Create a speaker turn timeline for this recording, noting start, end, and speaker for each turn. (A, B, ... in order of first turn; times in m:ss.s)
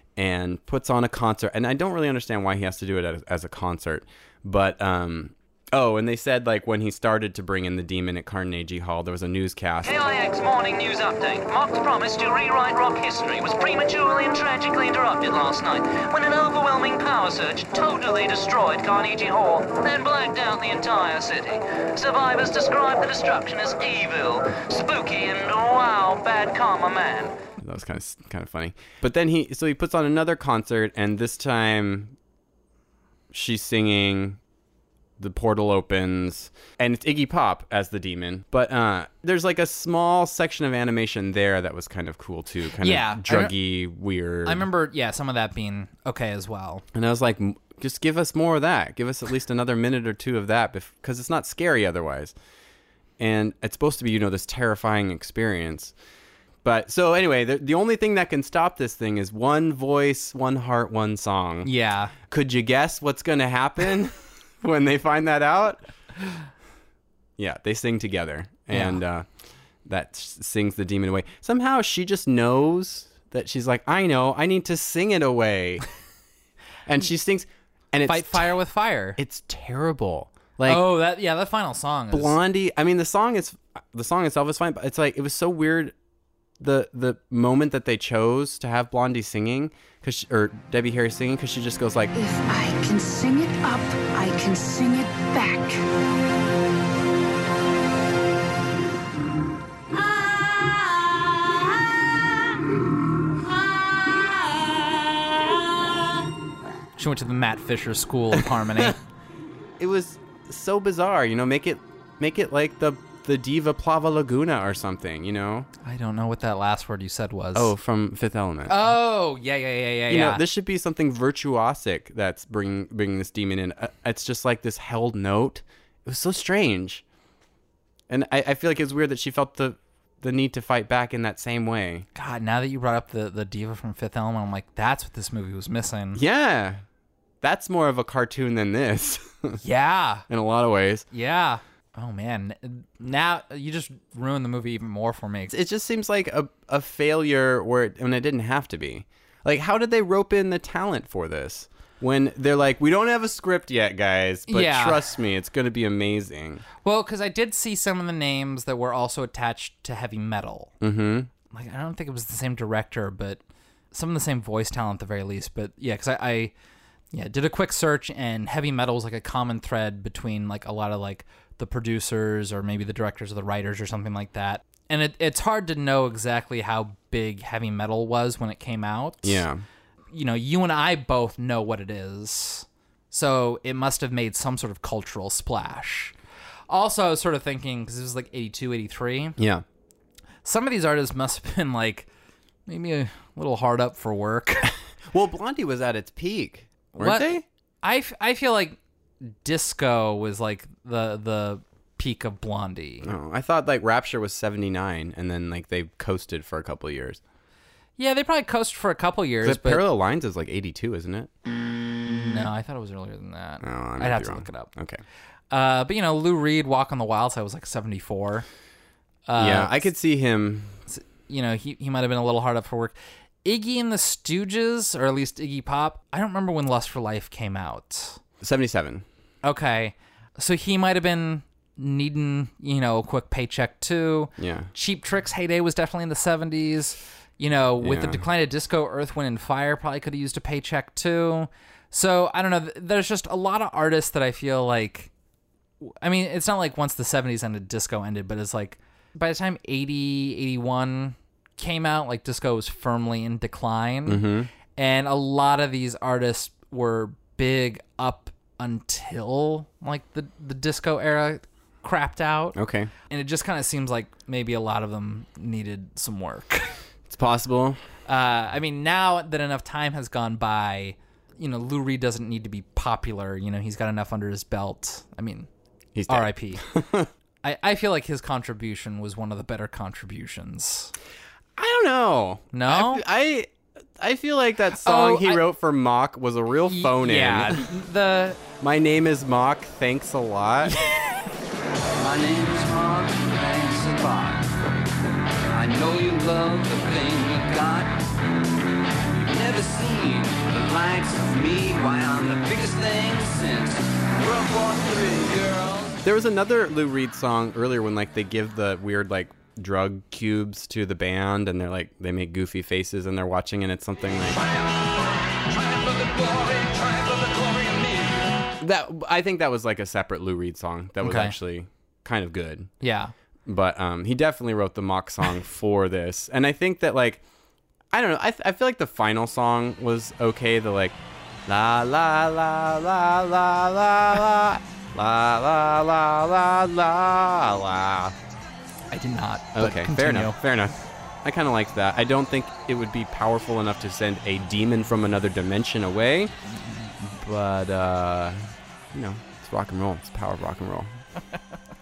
0:00.2-0:10.0 A
0:09.8-0:27.3 B
0:27.6-0:32.2 A
0:33.3-0:34.4 A
0:35.2-0:44.7 A
0:42.8-0:43.5 C
0:44.4-0:46.8 C
0:46.9-0:52.3 A
0:53.2-0:55.9 A
0:56.6-1:01.7 A
1:01.6-1:02.1 C
1:02.2-1:05.8 A
1:07.4-1:09.3 A
1:08.7-1:09.0 C
1:09.8-1:15.8 A
1:16.8-1:18.6 A
1:18.0-1:19.2 C
1:19.2-1:21.0 A
1:20.6-1:22.4 C
1:22.1-1:25.9 A
1:26.6-1:32.1 A
1:32.2-1:35.8 D
1:47.0-1:49.0 C
1:49.8-1:55.7 A
1:55.8-1:57.7 C
1:57.5-1:58.9 A
1:58.7-2:00.4 C
2:00.1-2:07.0 A
2:08.1-2:12.1 A
2:12.1-2:16.2 C
2:16.1-2:16.8 A
2:17.4-2:19.6 A
2:19.6-2:20.2 C
2:20.3-2:21.0 A
2:21.1-2:25.5 C
2:25.5-2:36.6 A
2:34.5-2:35.0 C
2:36.8-2:40.7 C
2:40.8-2:41.3 A
2:41.5-2:43.4 C
2:43.9-2:46.5 C
2:47.1-2:59.4 C
2:59.2-2:59.6 A
3:00.1-3:06.1 C
3:06.7-3:09.4 C
3:09.4-3:09.6 A
3:10.4-3:12.1 C
3:12.7-3:14.7 C
3:15.1-3:17.4 A
3:16.9-3:23.1 C
3:23.0-3:27.2 A
3:28.0-3:29.8 C
3:29.4-3:31.3 A
3:32.0-3:34.7 C
3:33.6-3:35.0 A
3:35.5-3:38.4 C
3:39.3-3:39.9 C
3:39.4-3:40.8 A
3:40.9-3:48.2 C
3:48.4-3:49.0 A
3:49.4-4:05.1 C
3:54.4-3:54.7 A
3:57.8-3:58.2 A
4:05.8-4:22.6 C
4:14.0-4:14.5 A
4:22.5-4:22.9 A
4:23.1-4:26.8 C
4:27.1-4:27.8 A
4:28.1-4:35.5 C
4:35.9-4:37.1 A
4:36.1-4:36.6 C
4:37.4-4:40.9 C
4:41.6-4:47.7 A
4:42.5-4:43.0 C
4:44.7-4:45.4 C
4:46.7-4:48.4 C
4:48.6-4:50.7 A
4:50.6-4:51.2 C
4:52.0-4:54.5 E
4:55.5-4:58.0 E
4:59.1-5:06.0 E
5:06.0-5:14.4 A
5:15.5-5:18.1 E
5:18.6-5:22.7 A
5:21.0-5:21.3 C
5:22.8-5:23.1 C
5:23.4-5:27.2 A
5:27.9-5:38.2 A
5:38.9-5:40.4 C
5:39.5-5:46.3 A
5:46.5-5:47.0 C
5:47.0-5:50.9 A